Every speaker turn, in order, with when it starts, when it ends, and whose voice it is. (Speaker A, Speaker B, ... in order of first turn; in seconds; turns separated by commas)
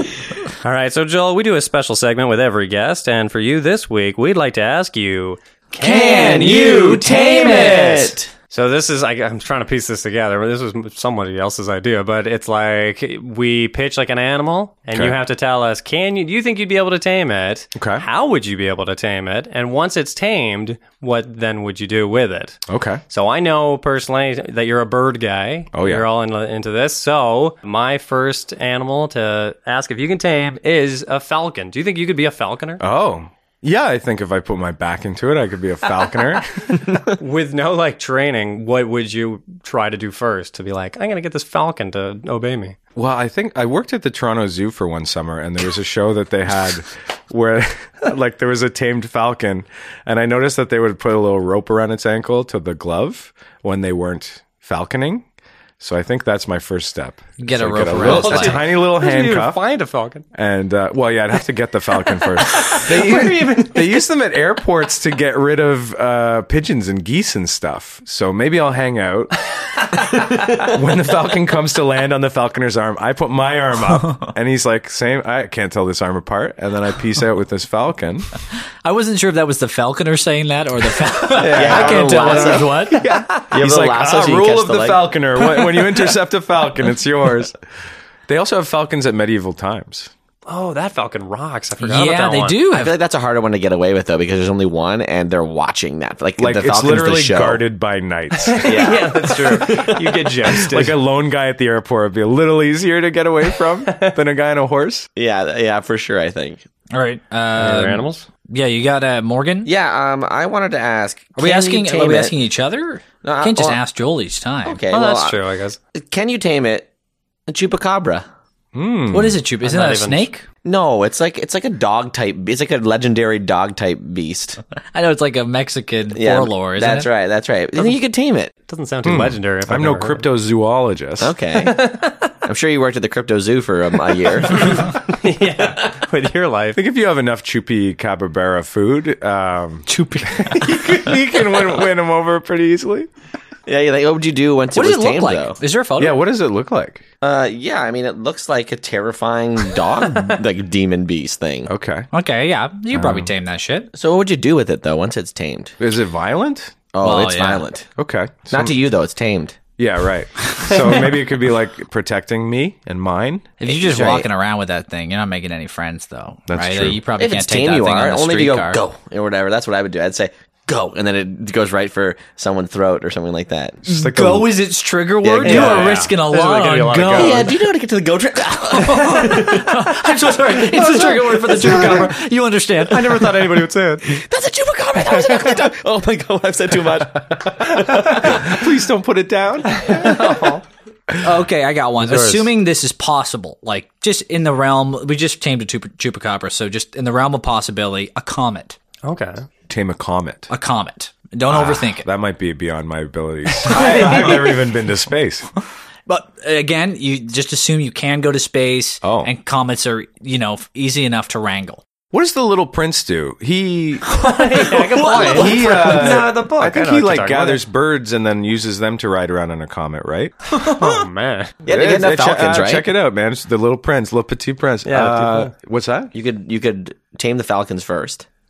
Speaker A: 0.6-7.0, Speaker B: 5.8-8.3, Speaker C: 5.9-8.0, Speaker A: 8.5-32.8, Speaker D: 14.9-15.2, Speaker D: 17.7-18.1, Speaker D: 22.7-23.0, Speaker D: 25.7-26.1, Speaker D: 32.8-36.9, Speaker A: 37.2-42.8, Speaker D: 43.0-55.2, Speaker D: 55.8-59.6, Speaker C: 57.4-58.6, Speaker A: 58.0-60.2, Speaker D: 60.3-69.3, Speaker A: 62.4-64.0, Speaker D: 70.5-78.3, Speaker C: 78.8-83.0, Speaker B: 81.3-85.1, Speaker D: 81.4-87.5, Speaker D: 88.3-90.1, Speaker A: 90.5-92.6, Speaker C: 91.8-93.0, Speaker B: 92.7-97.6, Speaker D: 96.4-99.0, Speaker A: 98.3-101.0, Speaker B: 98.6-100.3, Speaker D: 100.4-105.1, Speaker A: 103.9-104.2, Speaker B: 105.2-106.6, Speaker C: 106.9-109.7, Speaker A: 107.5-108.2, Speaker B: 109.6-112.3, Speaker C: 111.4-114.8, Speaker B: 113.2-113.8, Speaker B: 114.7-115.4, Speaker A: 114.9-115.8, Speaker B: 115.9-116.9, Speaker B: 117.5-118.2, Speaker D: 118.7-119.4, Speaker C: 119.1-120.4, Speaker A: 119.6-120.3, Speaker B: 120.6-124.6, Speaker C: 124.9-127.1, Speaker B: 126.1-128.5, Speaker A: 128.7-130.2, Speaker D: 129.0-131.3, Speaker B: 131.2-135.1, Speaker A: 131.5-132.2, Speaker A: 134.5-136.8, Speaker D: 136.7-143.1, Speaker C: 139.9-140.7, Speaker B: 143.7-145.6, Speaker C: 144.7-146.2, Speaker D: 146.0-147.1, Speaker B: 147.2-151.7, Speaker D: 151.7-152.1, Speaker C: 152.1-153.9, Speaker D: 152.9-153.3, Speaker B: 153.9-155.7, Speaker D: 155.8-156.7, Speaker B: 156.9-157.9, Speaker C: 157.0-157.7, Speaker D: 158.0-158.8, Speaker B: 158.5-159.6, Speaker D: 159.8-163.5, Speaker C: 163.6-168.8, Speaker B: 163.6-164.3, Speaker D: 166.5-167.0, Speaker B: 167.2-173.8, Speaker D: 173.8-174.5, Speaker C: 173.9-177.5, Speaker B: 175.2-176.0, Speaker A: 175.4-177.6, Speaker B: 177.2-182.1, Speaker C: 178.7-183.6, Speaker A: 182.9-184.2, Speaker B: 184.0-188.5, Speaker A: 185.1-185.5, Speaker D: 187.8-190.2, Speaker A: 189.7-190.6, Speaker C: 191.2-198.8, Speaker A: 192.0-192.5, Speaker A: 199.0-199.4, Speaker D: 199.7-200.5, Speaker C: 200.5-202.1, Speaker D: 201.5-205.5, Speaker C: 203.6-204.4, Speaker B: 203.9-204.2, Speaker C: 206.1-211.8, Speaker D: 209.0-209.3, Speaker D: 212.1-214.1, Speaker A: 214.1-217.6, Speaker B: 214.6-216.6, Speaker D: 215.2-220.3, Speaker A: 220.5-221.5, Speaker B: 221.7-222.9, Speaker D: 221.7-226.1, Speaker A: 224.8-225.5, Speaker B: 226.1-228.3